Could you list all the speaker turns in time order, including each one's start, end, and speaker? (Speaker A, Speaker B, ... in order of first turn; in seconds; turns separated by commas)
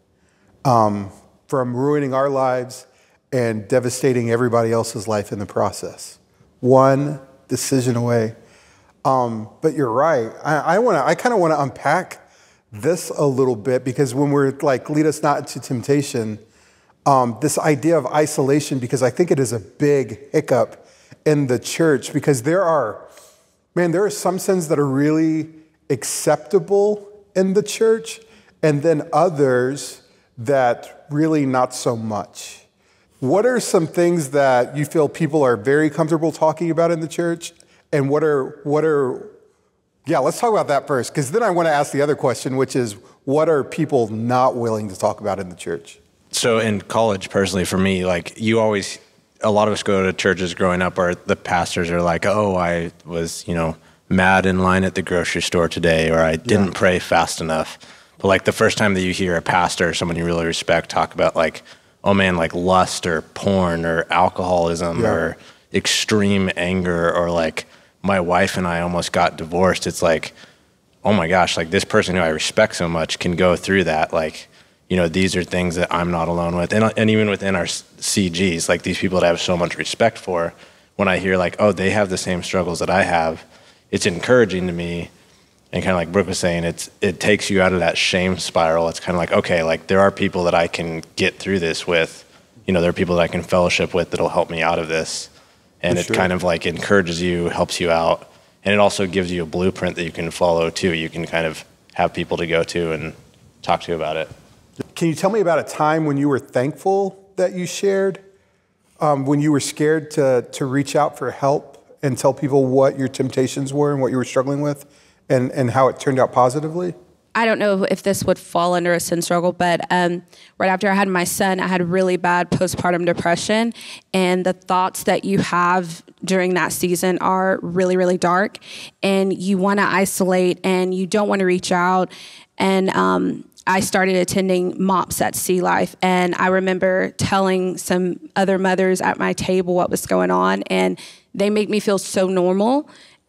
Speaker A: 0.7-8.4, Speaker A: 9.1-12.2, Speaker A: 12.7-16.4, Speaker A: 17.1-23.1, Speaker A: 23.8-32.6, Speaker A: 33.2-39.3, Speaker A: 40.1-46.0, Speaker B: 46.3-70.3, Speaker A: 56.5-56.7, Speaker A: 65.0-65.2, Speaker B: 71.0-85.1, Speaker B: 85.7-95.3, Speaker B: 95.8-104.3, Speaker A: 95.9-96.3, Speaker A: 104.9-108.2, Speaker A: 109.0-117.0, Speaker C: 117.3-142.9